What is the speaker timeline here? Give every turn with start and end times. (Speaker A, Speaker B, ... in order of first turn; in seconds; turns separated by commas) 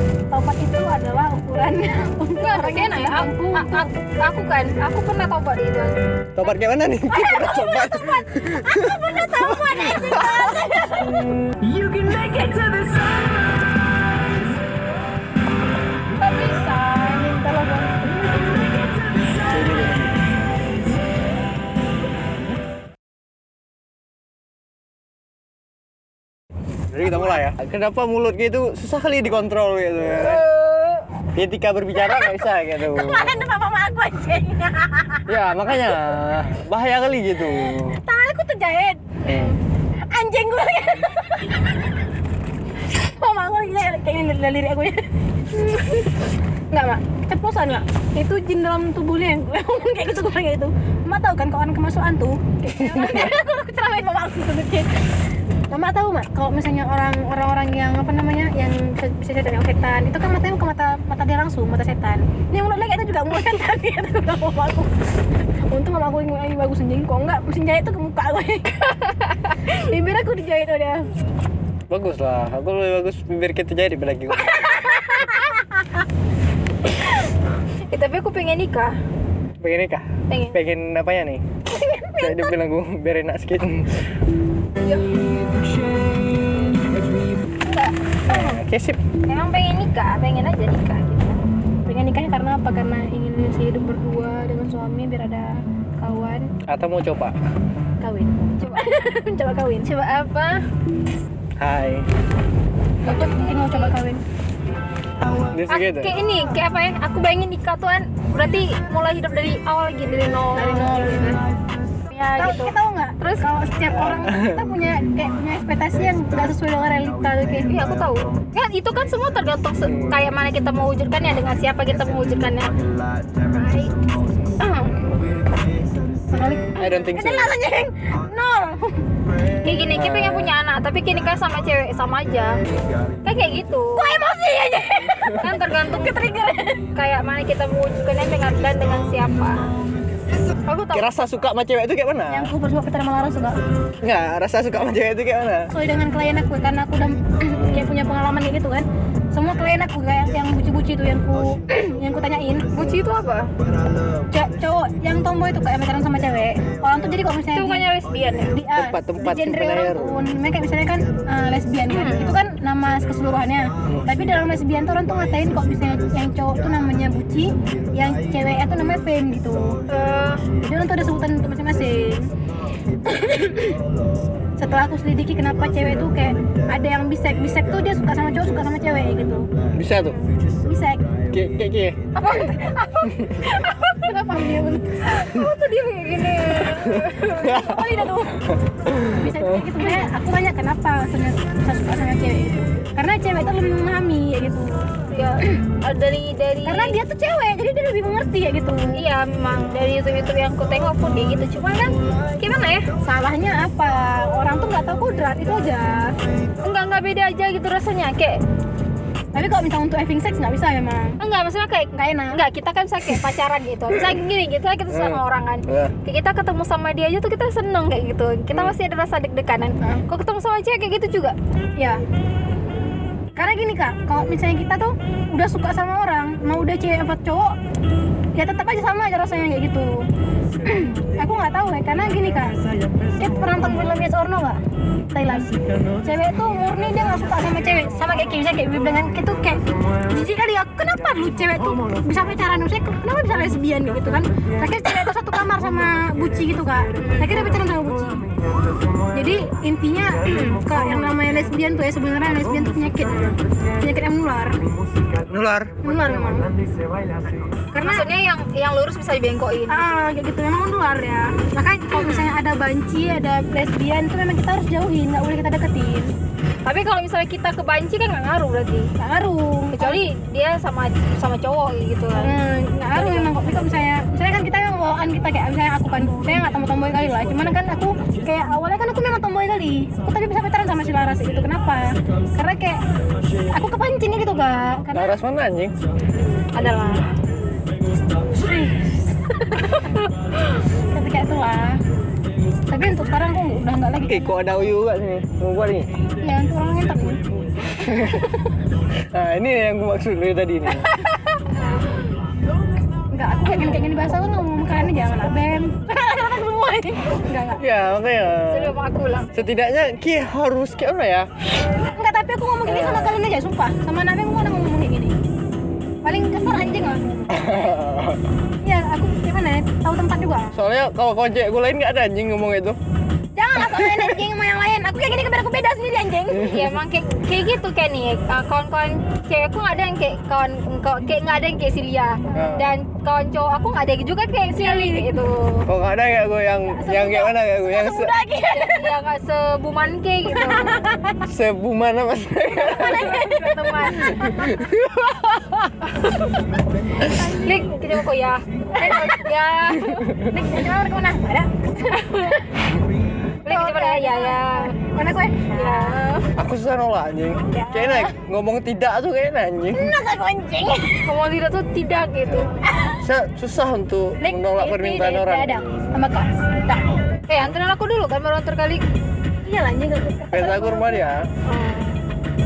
Speaker A: 0.3-3.9, Speaker B: 2.4-6.0, Speaker C: 6.3-9.1, Speaker A: 7.1-13.1, Speaker C: 9.6-10.3, Speaker A: 16.2-19.0, Speaker C: 19.4-20.2, Speaker C: 26.9-30.5, Speaker A: 27.0-27.4, Speaker B: 30.1-31.1, Speaker C: 31.3-33.4, Speaker A: 31.9-36.0, Speaker C: 35.3-38.0, Speaker A: 38.0-39.2, Speaker C: 39.2-39.5, Speaker A: 40.1-41.9, Speaker A: 42.8-54.9, Speaker A: 55.7-64.9, Speaker A: 65.7-68.9, Speaker B: 68.9-69.6, Speaker A: 69.7-71.1, Speaker C: 71.9-74.7, Speaker A: 74.9-76.0, Speaker B: 77.9-79.0, Speaker C: 79.6-81.4, Speaker B: 80.3-80.6, Speaker B: 81.7-82.5, Speaker C: 82.2-84.0, Speaker B: 84.8-85.2, Speaker B: 87.6-88.6, Speaker C: 88.2-89.0, Speaker B: 89.2-91.4, Speaker A: 91.8-96.5, Speaker C: 96.7-97.3, Speaker A: 98.0-99.9, Speaker B: 99.8-100.6, Speaker C: 101.6-102.1, Speaker A: 103.0-104.2, Speaker B: 103.1-103.9, Speaker C: 105.5-106.1, Speaker B: 105.7-111.3, Speaker A: 110.5-111.4, Speaker B: 112.1-113.5, Speaker A: 112.3-117.8, Speaker C: 114.2-114.6, Speaker B: 117.7-125.2, Speaker C: 119.8-120.2, Speaker A: 126.3-129.0, Speaker C: 126.8-127.6, Speaker B: 129.6-132.6, Speaker C: 129.9-130.6, Speaker B: 133.2-134.1, Speaker A: 133.9-136.8, Speaker B: 135.3-136.2, Speaker B: 136.9-139.7, Speaker B: 140.6-141.1, Speaker C: 140.9-142.5, Speaker A: 142.3-143.6, Speaker C: 144.0-145.7, Speaker A: 145.7-152.7, Speaker C: 147.5-147.9, Speaker B: 152.7-153.5, Speaker A: 154.3-157.9, Speaker B: 157.5-158.6, Speaker A: 158.5-169.8, Speaker C: 158.7-160.2, Speaker B: 161.9-162.4, Speaker B: 169.8-170.4, Speaker A: 170.5-172.3, Speaker A: 173.1-173.8, Speaker A: 174.6-179.5, Speaker C: 179.6-180.2, Speaker A: 180.6-181.2, Speaker C: 181.2-182.1, Speaker A: 182.1-185.0, Speaker B: 185.0-187.7, Speaker C: 186.8-188.0, Speaker A: 187.4-188.5, Speaker C: 188.8-189.6, Speaker A: 189.1-194.9, Speaker B: 195.1-197.0, Speaker A: 196.6-199.1, Speaker B: 198.9-202.9, Speaker A: 203.0-206.1, Speaker B: 206.6-208.4, Speaker A: 209.3-211.2, Speaker B: 211.2-221.3, Speaker A: 211.9-212.4, Speaker C: 214.9-215.9, Speaker A: 223.3-227.5, Speaker A: 228.3-230.1, Speaker A: 230.6-232.6, Speaker A: 233.2-234.6, Speaker A: 235.1-248.3, Speaker B: 247.0-247.5, Speaker A: 249.1-254.7, Speaker C: 255.2-255.8, Speaker A: 255.8-256.5, Speaker A: 257.7-258.1, Speaker B: 257.8-260.0, Speaker A: 259.7-266.1, Speaker B: 261.9-262.3, Speaker B: 266.6-268.9, Speaker A: 269.0-270.1, Speaker B: 269.7-272.4, Speaker A: 272.1-282.8, Speaker B: 272.9-273.7, Speaker A: 283.5-285.2, Speaker C: 284.9-285.7, Speaker B: 286.5-287.0, Speaker A: 288.3-288.9, Speaker B: 289.6-290.1, Speaker A: 290.9-291.8, Speaker A: 292.7-294.4, Speaker C: 294.0-295.9, Speaker A: 296.2-297.3, Speaker C: 297.8-298.2, Speaker A: 298.1-298.4, Speaker C: 299.1-300.9, Speaker B: 300.8-301.1, Speaker A: 303.1-307.6, Speaker C: 307.6-308.7, Speaker B: 308.4-309.3, Speaker C: 309.3-311.3, Speaker A: 311.9-315.1, Speaker C: 312.7-313.2, Speaker A: 316.0-317.5, Speaker C: 317.3-318.2, Speaker A: 318.6-320.6, Speaker C: 320.5-322.8, Speaker A: 323.4-326.5, Speaker B: 326.3-335.7, Speaker C: 332.3-332.7, Speaker A: 334.4-335.2, Speaker C: 335.6-338.1, Speaker A: 336.6-338.9, Speaker B: 338.5-340.9, Speaker A: 340.3-341.2, Speaker C: 341.2-343.2, Speaker A: 342.5-344.6, Speaker B: 343.1-343.9, Speaker C: 343.9-345.6, Speaker A: 347.0-347.7, Speaker B: 347.4-350.1, Speaker A: 348.8-349.3, Speaker C: 349.8-350.2, Speaker A: 350.2-351.8, Speaker B: 351.8-352.4, Speaker A: 353.4-356.1, Speaker B: 353.4-354.7, Speaker B: 355.5-356.3, Speaker C: 356.3-360.0, Speaker A: 357.4-358.1, Speaker A: 359.7-361.2, Speaker B: 361.0-362.6, Speaker C: 362.3-366.0, Speaker A: 362.6-363.0, Speaker A: 364.2-367.0, Speaker B: 367.3-368.8, Speaker A: 369.4-371.1, Speaker C: 370.3-371.2, Speaker B: 371.5-371.9